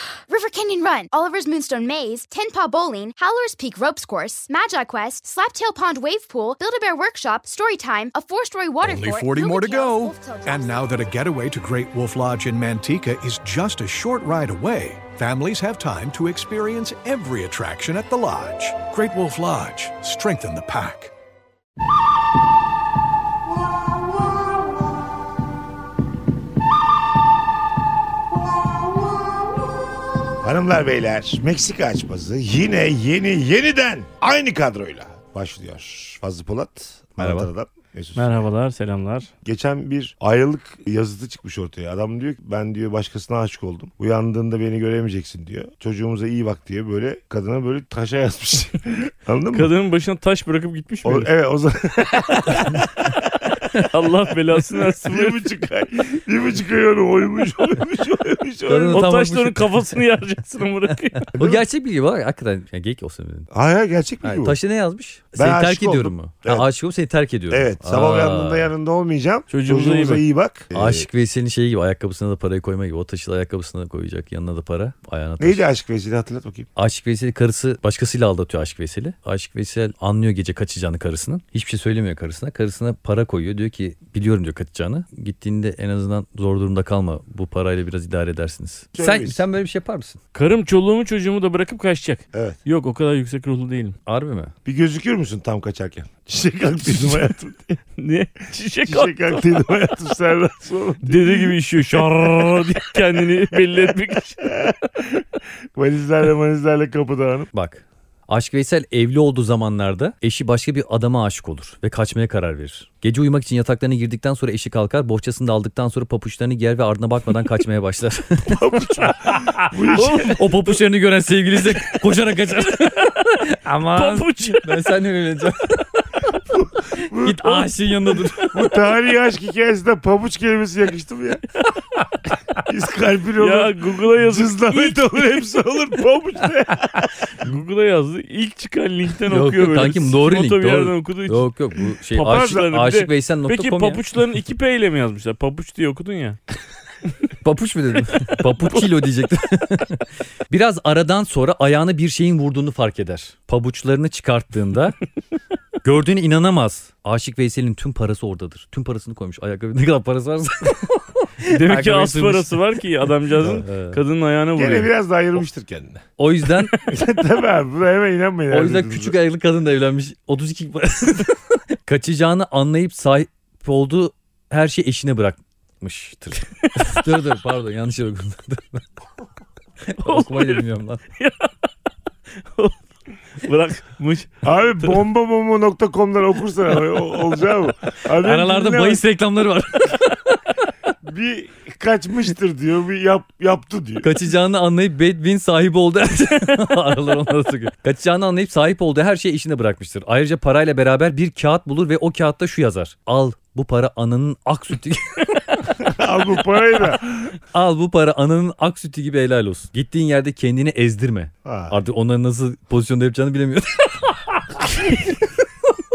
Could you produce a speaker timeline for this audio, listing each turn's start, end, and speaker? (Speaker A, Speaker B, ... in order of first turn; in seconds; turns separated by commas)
Speaker A: 0.3-11.1, Speaker B: 8.8-21.1, Speaker C: 30.4-38.3, Speaker D: 37.2-37.5, Speaker E: 38.1-39.3, Speaker C: 39.4-49.7, Speaker E: 49.5-51.3, Speaker C: 51.0-53.2, Speaker E: 53.8-55.4, Speaker C: 54.9-59.1, Speaker D: 58.7-59.8, Speaker E: 58.9-61.3, Speaker D: 61.3-63.5, Speaker C: 63.5-64.5, Speaker D: 64.2-68.7, Speaker C: 65.4-66.7, Speaker C: 67.5-71.0, Speaker E: 69.5-70.2, Speaker D: 70.7-75.6, Speaker C: 75.4-76.7, Speaker D: 76.8-90.2, Speaker C: 88.9-89.4, Speaker E: 90.3-94.0, Speaker D: 94.0-94.5, Speaker C: 94.6-97.8, Speaker E: 98.0-99.9, Speaker C: 98.9-101.5, Speaker E: 101.0-104.4, Speaker C: 104.4-105.2, Speaker C: 105.7-107.5, Speaker D: 107.5-126.0, Speaker C: 118.5-120.4, Speaker E: 119.9-120.7, Speaker E: 122.7-123.3, Speaker E: 123.9-124.8, Speaker C: 126.4-127.7, Speaker D: 127.1-128.7, Speaker C: 128.5-131.4, Speaker C: 132.6-137.1, Speaker E: 133.4-135.2, Speaker E: 137.4-141.5, Speaker D: 139.3-144.0, Speaker E: 142.1-146.4, Speaker D: 147.4-155.0, Speaker E: 148.6-148.8, Speaker D: 155.8-162.5, Speaker E: 161.4-164.9, Speaker D: 163.4-164.0, Speaker C: 164.6-166.0, Speaker D: 166.2-166.8, Speaker C: 166.8-169.1, Speaker D: 168.5-178.8, Speaker D: 179.8-181.0, Speaker E: 180.0-180.7, Speaker E: 181.2-181.5, Speaker E: 183.3-185.0, Speaker C: 184.4-189.0, Speaker D: 188.2-190.3, Speaker C: 191.0-194.1, Speaker D: 194.0-205.7, Speaker C: 205.8-207.3, Speaker D: 207.5-215.1, Speaker C: 211.4-211.8